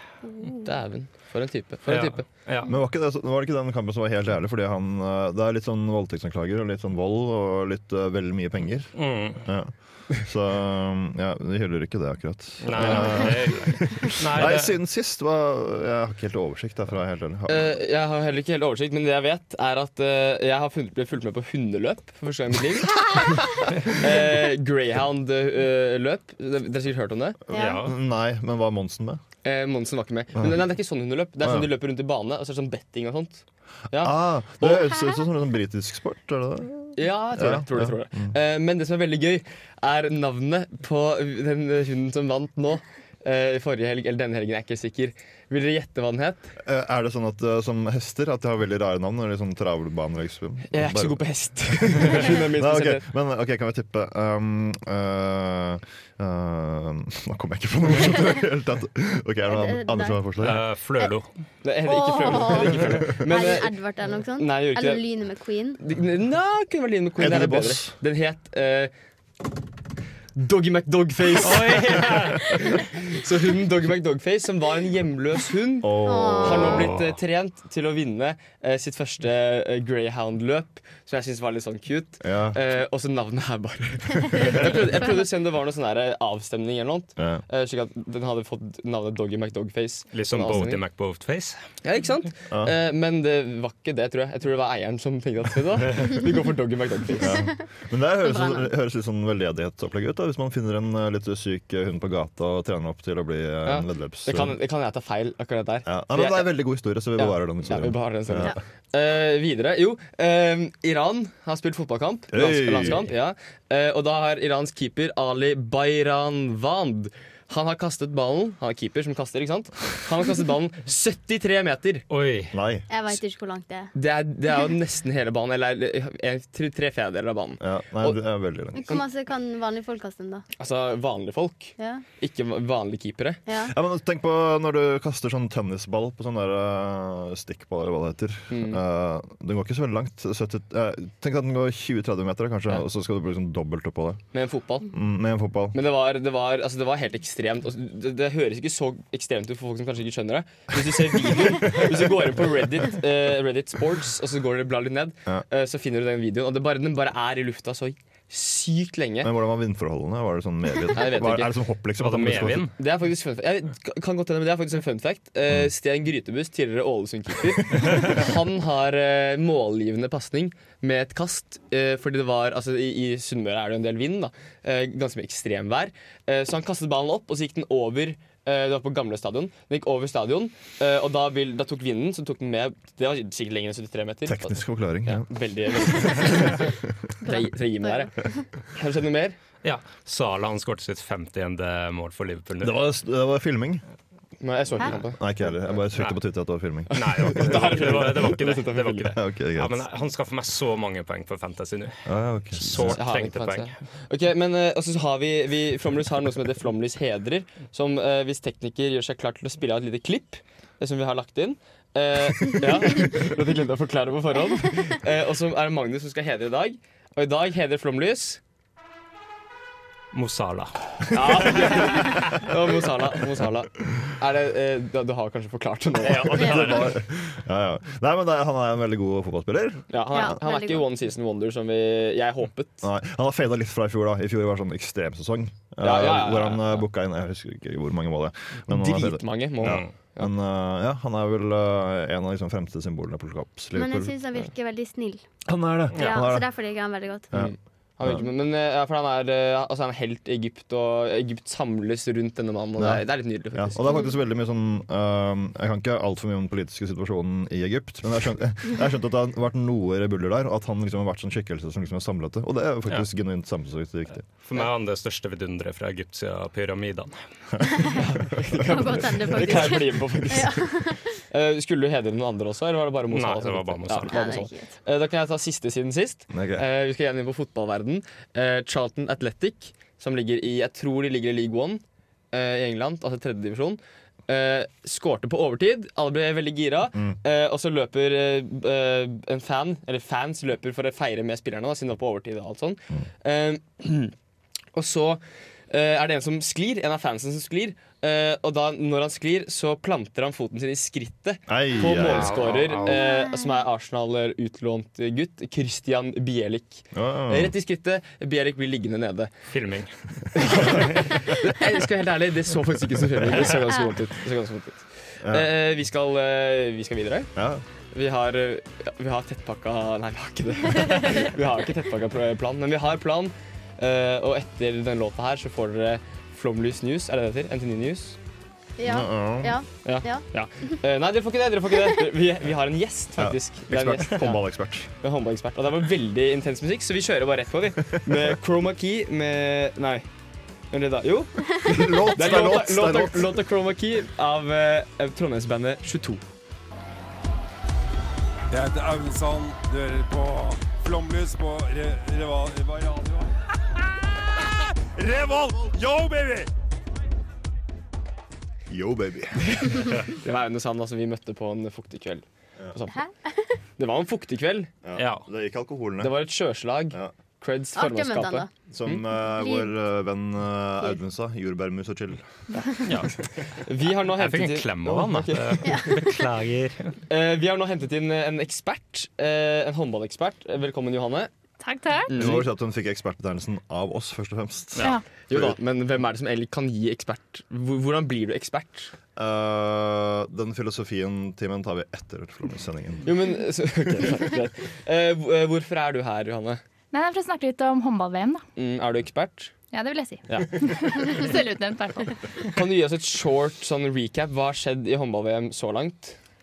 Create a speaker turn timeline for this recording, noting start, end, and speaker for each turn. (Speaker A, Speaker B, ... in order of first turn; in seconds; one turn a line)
Speaker A: 0.6-2.2
Speaker B: 1.9-2.7
Speaker C: 2.6-17.8
Speaker B: 8.9-9.4
Speaker B: 12.6-14.7
Speaker A: 17.5-27.4
Speaker C: 27.5-29.2
Speaker D: 27.5-27.8
Speaker B: 27.5-27.9
Speaker A: 29.4-34.9
Speaker C: 30.4-30.6
Speaker C: 31.4-31.7
Speaker C: 33.9-38.4
Speaker A: 36.9-46.5
Speaker C: 46.6-60.6
Speaker A: 50.7-53.0
Speaker D: 59.5-60.2
Speaker B: 60.4-61.3
Speaker A: 61.6-63.7
Speaker D: 61.8-65.8
Speaker A: 64.4-65.0
Speaker A: 65.8-68.9
Speaker C: 67.2-68.0
Speaker A: 70.3-90.8
Speaker B: 71.4-72.5
Speaker C: 75.8-77.0
Speaker D: 76.0-76.9
Speaker C: 82.2-82.6
Speaker C: 87.2-87.4
Speaker B: 90.1-91.6
Speaker A: 91.8-97.3
Speaker C: 92.5-92.7
Speaker C: 97.2-104.6
Speaker D: 97.2-97.6
Speaker D: 98.2-98.7
Speaker A: 103.6-106.5
Speaker C: 105.8-108.6
Speaker A: 107.2-122.0
Speaker C: 112.3-113.1
Speaker B: 122.1-122.5
Speaker C: 122.5-123.2
Speaker D: 122.9-123.9
Speaker A: 123.9-128.2
Speaker C: 127.6-129.0
Speaker D: 128.8-130.5
Speaker A: 130.6-133.4
Speaker D: 131.8-132.0
Speaker D: 133.4-133.7
Speaker C: 133.7-144.2
Speaker A: 138.5-138.8
Speaker A: 144.3-144.9
Speaker C: 144.9-145.8
Speaker A: 145.7-159.3
Speaker C: 159.2-162.7
Speaker A: 160.9-161.5
Speaker B: 162.0-162.7
Speaker A: 162.8-186.7
Speaker C: 184.2-186.7
Speaker D: 187.2-188.4
Speaker A: 187.2-189.4
Speaker B: 189.6-192.8
Speaker C: 192.6-193.8
Speaker A: 194.4-195.2
Speaker C: 194.9-198.3
Speaker A: 196.9-199.1
Speaker B: 196.9-202.0
Speaker C: 199.1-199.8
Speaker C: 202.1-203.0
Speaker A: 202.6-218.4
Speaker B: 202.6-203.8
Speaker B: 220.1-222.1
Speaker A: 221.1-226.9
Speaker C: 226.0-229.9
Speaker D: 226.4-226.8
Speaker A: 229.9-232.8
Speaker D: 230.1-230.9
Speaker C: 232.8-244.2
Speaker A: 235.8-236.8
Speaker A: 238.7-240.3
Speaker B: 239.6-239.9
Speaker D: 243.7-245.3
Speaker C: 245.4-246.5
Speaker B: 245.9-246.3
Speaker D: 245.9-247.3
Speaker C: 247.3-248.2
Speaker A: 247.3-253.8
Speaker C: 252.8-264.2
Speaker D: 253.8-254.2
Speaker B: 264.4-267.1
Speaker A: 268.0-270.7
Speaker D: 268.6-271.1
Speaker A: 271.3-294.1
Speaker B: 273.1-274.1
Speaker D: 274.1-274.7
Speaker C: 276.3-276.6
Speaker A: 294.7-309.3
Speaker C: 301.5-302.4
Speaker B: 302.0-303.0
Speaker D: 302.9-303.6
Speaker C: 306.9-307.5
Speaker B: 309.5-310.9
Speaker A: 310.3-317.3
Speaker C: 315.2-315.5
Speaker C: 317.3-317.6
Speaker A: 317.9-328.2
Speaker D: 328.8-330.3
Speaker C: 328.8-329.6
Speaker A: 329.8-334.4
Speaker C: 333.2-334.9
Speaker A: 335.0-340.1
Speaker A: 340.7-346.2
Speaker C: 341.6-343.3
Speaker E: 348.5-353.3
Speaker E: 354.6-356.5
Speaker C: 358.7-359.9
Speaker A: 359.5-363.0
Speaker D: 362.9-363.5
Speaker A: 363.8-364.7
Speaker C: 364.8-366.2
Speaker B: 365.0-365.2
Speaker A: 366.0-369.0
Speaker D: 367.7-368.5
Speaker C: 368.7-372.3
Speaker D: 369.4-369.7
Speaker B: 372.8-373.1
Speaker A: 373.5-375.8
Speaker B: 374.1-377.0
Speaker D: 375.6-376.2
Speaker A: 377.1-381.3
Speaker F: 381.6-382.1
Speaker A: 382.1-382.5
Speaker C: 382.1-385.6
Speaker A: 385.3-388.9
Speaker C: 389.1-393.1
Speaker A: 393.0-396.6
Speaker F: 396.9-398.4
Speaker A: 398.6-399.5
Speaker F: 399.7-402.2
Speaker A: 400.3-400.6
Speaker A: 402.5-406.2